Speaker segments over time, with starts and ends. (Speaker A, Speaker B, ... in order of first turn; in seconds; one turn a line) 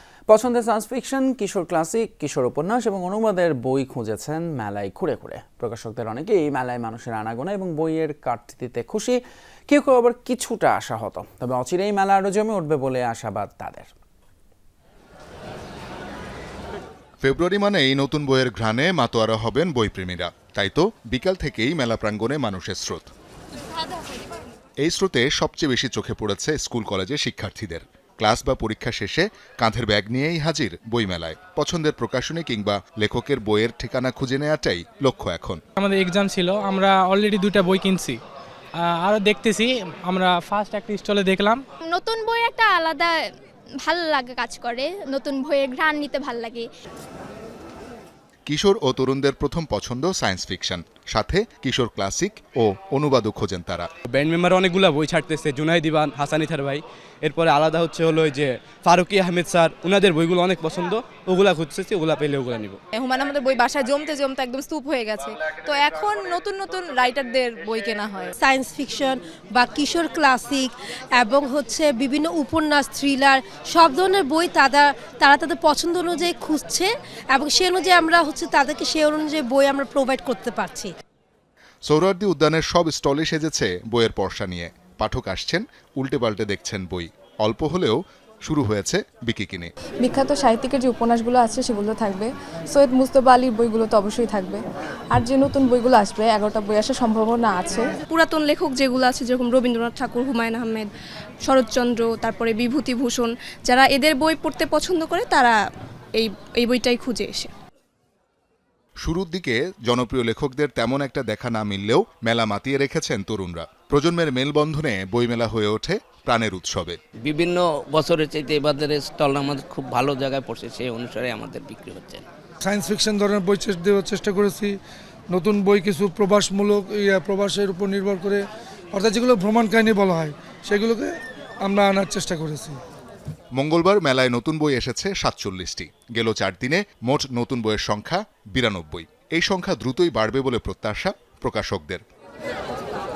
Speaker A: 0.3-13.9
Speaker B: 17.2-23.1
Speaker B: 24.8-35.6
Speaker C: 35.8-38.2
Speaker C: 39.0-41.6
Speaker D: 41.9-43.2
Speaker D: 43.8-46.7
Speaker B: 48.5-53.9
Speaker E: 54.1-62.8
Speaker F: 62.9-68.3
Speaker G: 68.4-80.9
Speaker B: 81.9-89.7
Speaker H: 90.0-94.6
Speaker H: 95.1-97.9
Speaker I: 98.1-100.9
Speaker I: 101.5-105.5
Speaker I: 106.2-107.5
Speaker B: 109.0-117.0
Speaker J: 117.2-122.2
Speaker K: 122.6-124.7
Speaker K: 125.3-128.4
Speaker K: 128.9-132.8
Speaker B: 133.6-142.0